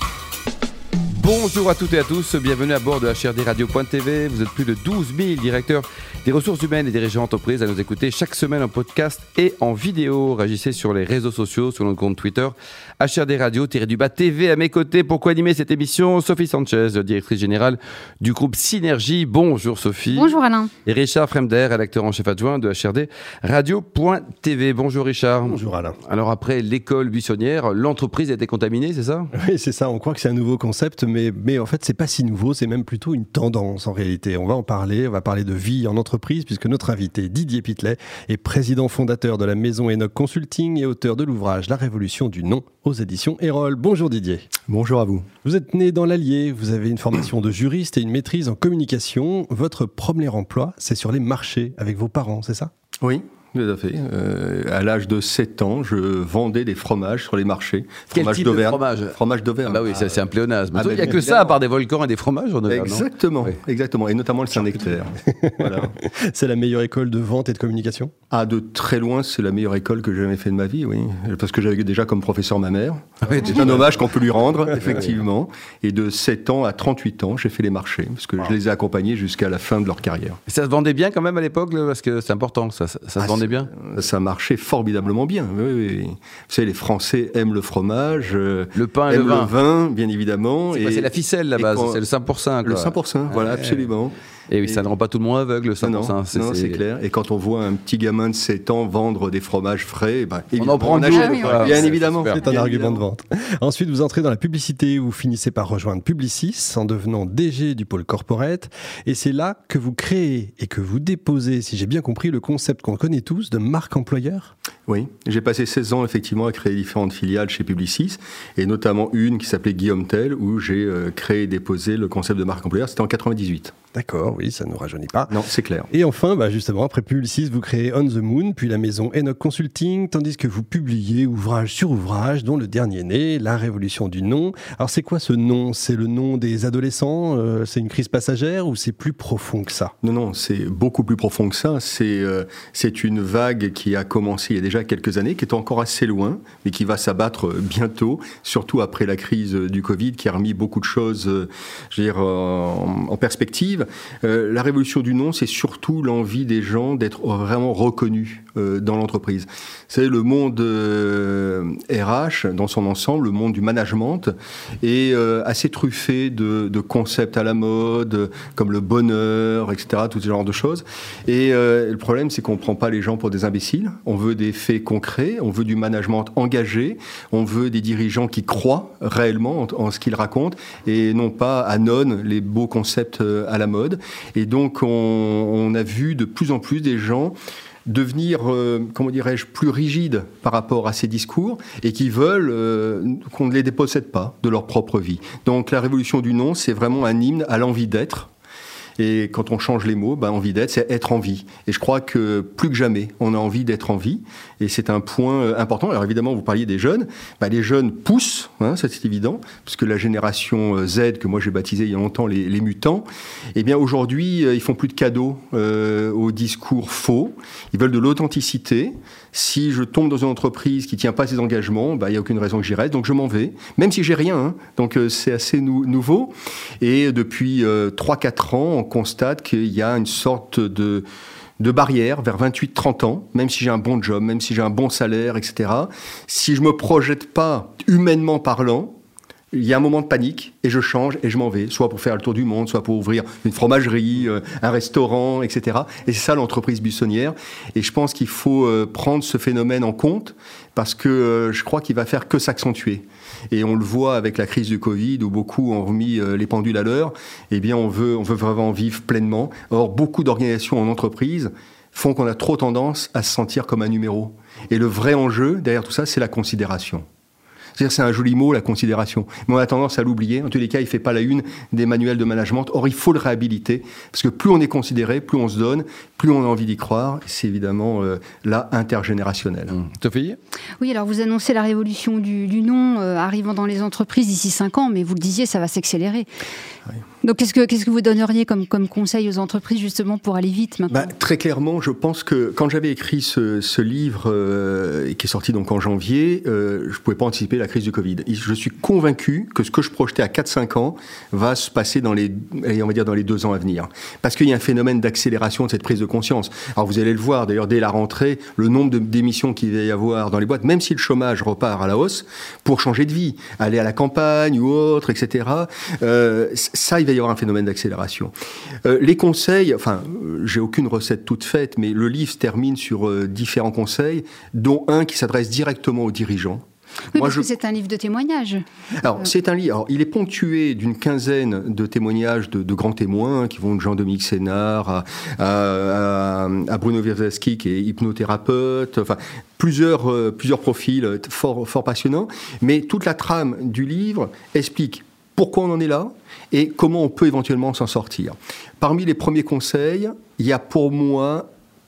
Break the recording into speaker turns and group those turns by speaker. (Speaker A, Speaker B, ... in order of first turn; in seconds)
Speaker A: 1.1-29.3, 58.1-59.1, 59.6-63.5, 73.2-73.9, 74.8-75.0, 80.5-83.7, 88.7-89.5, 90.7-93.8, 94.5-96.8, 100.5-102.4, 279.7-280.4
Speaker B: 20.1-20.7, 101.1-101.7, 280.8-286.3, 287.2-291.0, 327.1-328.6
Speaker C: 25.4-26.0, 29.3-44.5, 45.4-52.7, 65.2-68.1, 102.2-114.5, 123.9-125.3, 125.9-139.9
Speaker D: 44.7-45.3, 53.0-59.9, 60.7-61.5, 62.7-65.9, 68.3-80.4, 83.2-92.0, 92.6-94.1, 95.8-103.0, 114.9-123.7, 125.3-125.9, 140.0-198.3, 199.0-231.0, 231.6-238.9, 239.5-267.0, 267.8-279.7, 290.9-318.3, 318.8-326.6, 327.1-327.5, 329.0-351.4